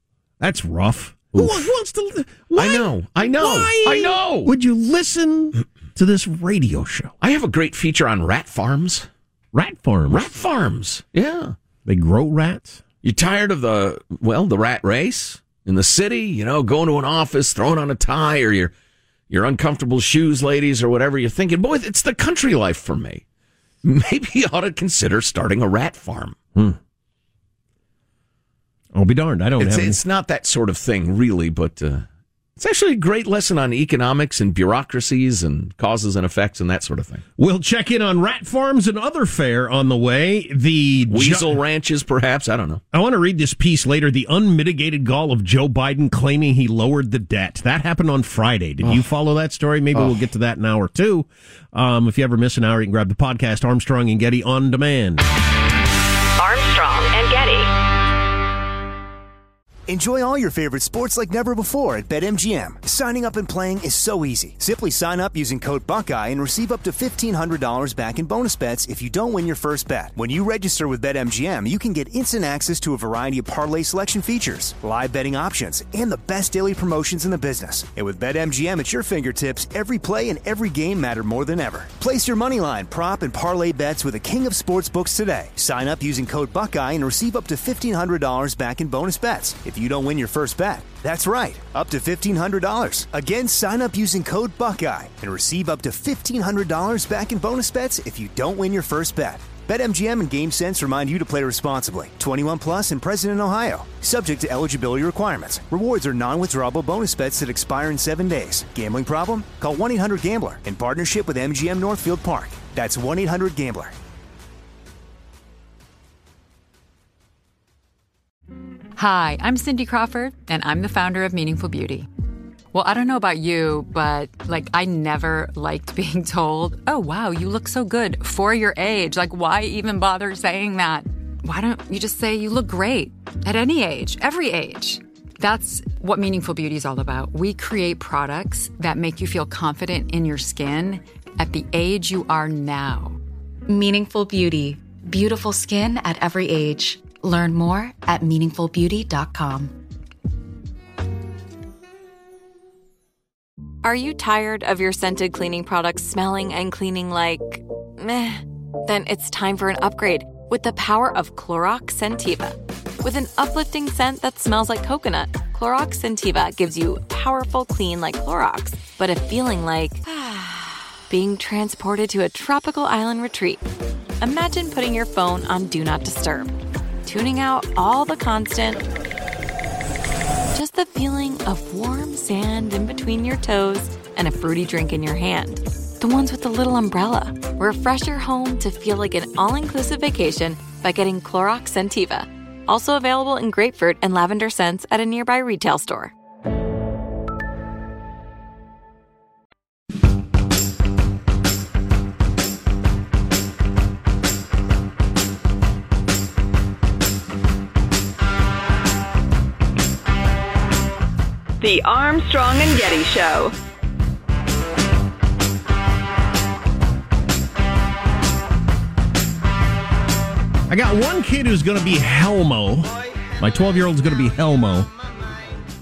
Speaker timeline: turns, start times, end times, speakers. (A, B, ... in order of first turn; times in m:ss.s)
0:00.4-0:07.1 A
0:01.4-0:01.6 B
0:02.6-0:04.5 B
0:07.2-0:09.1 B
0:09.5-0:10.2 A
0:10.1-0:11.6 B
0:11.8-0:12.8 A
0:13.0-0:18.7 B
0:19.3-0:23.2 B
0:23.8-0:26.4 B
0:28.9-0:30.0 A
0:29.6-0:32.1 B
0:32.6-0:37.2 B
0:37.4-0:41.6 A
0:41.1-0:42.8 B
0:42.9-0:55.2 A
0:48.8-0:49.1 B
0:49.9-0:50.2 B
0:56.4-0:57.7 C
0:59.9-1:54.0 D
1:59.0-2:02.1 E
2:02.7-2:23.2 E
2:23.7-2:29.7 F
2:33.8-2:53.6 G
2:54.2-2:58.8 G
3:00.5-3:16.1 G
3:31.6-3:33.5 C
3:40.7-3:44.9 A